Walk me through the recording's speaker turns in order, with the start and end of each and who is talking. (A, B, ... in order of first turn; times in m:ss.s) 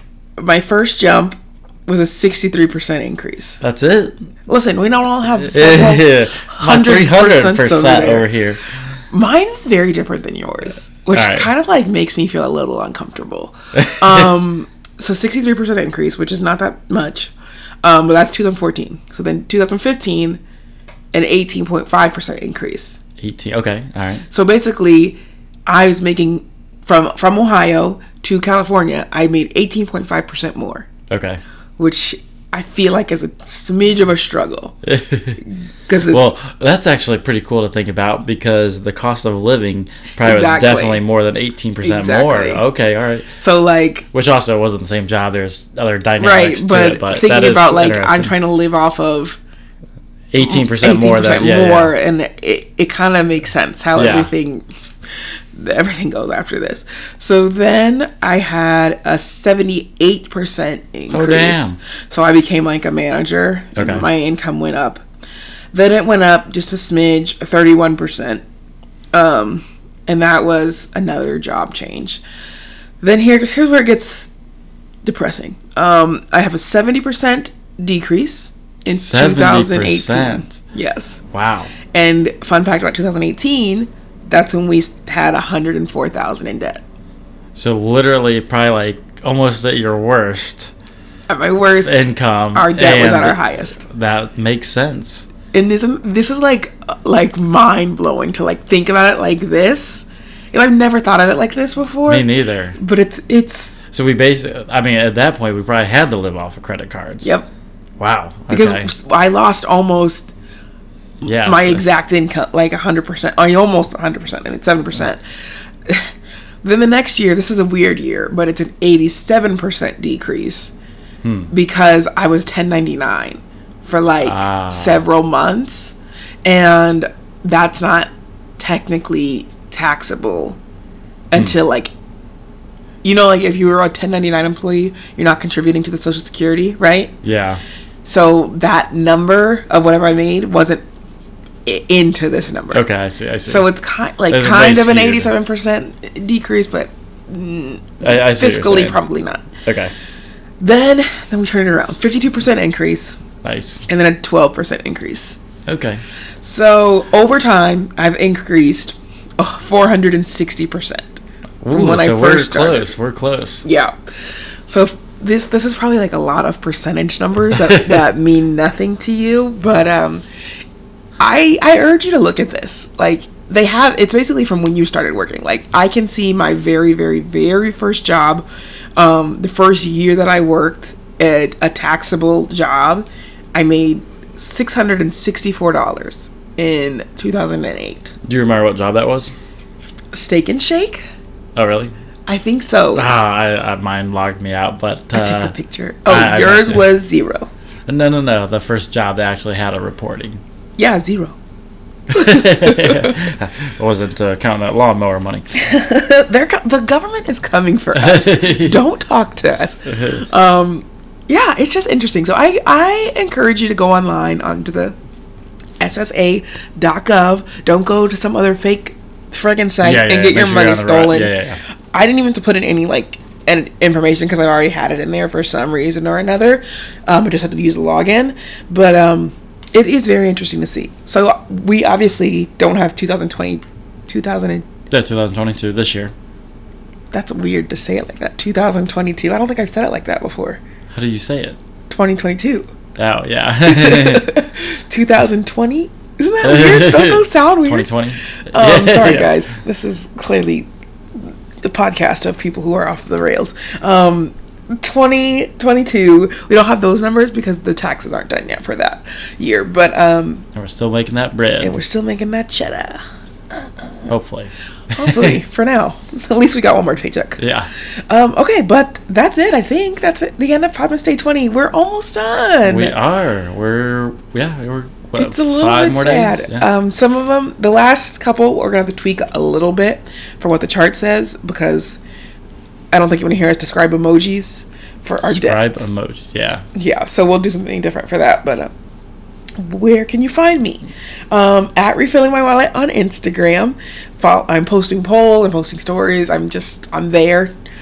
0:00.4-0:03.6 A
0:03.6-0:04.2 B
0:04.5-0:08.3 A
0:05.4-0:08.6 B
0:09.1-0:17.3 A
0:11.1-0:11.5 B
0:13.7-0:14.3 B
0:17.8-0:20.4 A
0:21.1-0:23.0 A
0:23.2-0:24.2 B
0:24.3-0:30.9 A
0:31.1-0:31.4 B
0:31.8-0:34.8 A
0:34.8-0:35.4 B
0:35.9-0:36.3 A
0:36.1-0:43.3 B
0:40.2-0:41.0 A
0:41.8-0:42.6 A
0:43.4-0:44.1 A
0:44.1-0:48.3 B
0:46.2-0:49.4 A
0:50.3-0:51.9 B
0:50.4-0:54.6 A
0:54.0-0:54.3 B
0:55.5-1:05.0 A
1:01.1-1:01.8 B
1:03.8-1:04.0 B
1:05.7-1:08.4 A
1:09.1-1:12.2 A
1:13.0-1:14.3 A
1:15.0-1:21.2 A
1:18.9-1:20.6 B
1:21.3-1:21.7 B
1:21.9-1:26.8 A
1:27.5-1:30.7 B
1:31.3-1:33.8 A
1:31.8-1:35.3 B
1:35.5-1:43.8 A
1:42.0-1:42.8 B
1:43.9-1:47.3 B
1:47.2-1:47.5 A
1:48.0-1:48.9 B
1:48.5-1:50.3 A
1:51.2-1:51.8 B
1:51.2-1:55.2 A
1:56.6-2:00.7 A
2:01.2-2:01.5 B
2:01.5-2:10.6 A
2:04.2-2:05.0 B
2:11.3-2:11.9 A
2:13.0-2:17.1 A
2:17.2-2:17.6 B
2:18.0-2:20.8 A
2:21.6-2:22.9 A
2:22.7-2:23.7 B
2:23.5-2:29.5 A
2:24.3-2:25.3 B
2:28.0-2:29.0 B
2:29.6-2:29.9 B
2:30.6-2:33.2 A
2:33.4-2:33.8 B
2:33.9-2:35.4 A
2:35.6-2:36.0 B
2:36.4-2:41.2 A
2:41.6-2:43.6 B
2:41.7-2:42.9 A
2:43.6-2:43.9 A
2:44.7-2:50.2 A
2:51.2-2:58.4 A
2:59.0-3:08.1 A
3:08.2-3:09.3 B
3:10.1-3:11.0 A
3:11.6-3:11.9 B
3:12.3-3:13.1 A
3:12.9-3:15.5 B
3:15.1-3:17.5 A
3:16.1-3:16.9 B
3:17.9-3:20.4 B
3:20.8-3:21.4 A
3:22.1-3:25.4 B
3:22.1-3:23.3 A
3:25.5-3:34.9 A
3:28.0-3:28.8 B
3:29.9-3:30.2 B
3:35.8-3:41.3 A
3:39.8-3:41.6 B
3:41.9-3:54.7 A
3:54.9-3:56.1 B
3:57.1-4:00.6 A
4:00.9-4:01.6 B
4:01.9-4:02.7 A
4:03.0-4:04.3 B
4:03.7-4:07.9 A
4:06.4-4:09.5 B
4:08.5-4:20.4 A
4:20.5-4:21.8 B
4:21.6-4:23.0 A
4:23.5-4:24.1 A
4:24.1-4:25.4 B
4:24.9-4:27.4 A
4:27.4-4:27.7 B
4:28.1-4:32.9 A
4:32.6-4:36.7 B
4:35.2-4:42.0 A
4:42.9-4:45.9 A
4:45.2-4:46.6 B
4:46.7-4:48.7 A
4:49.6-4:57.5 A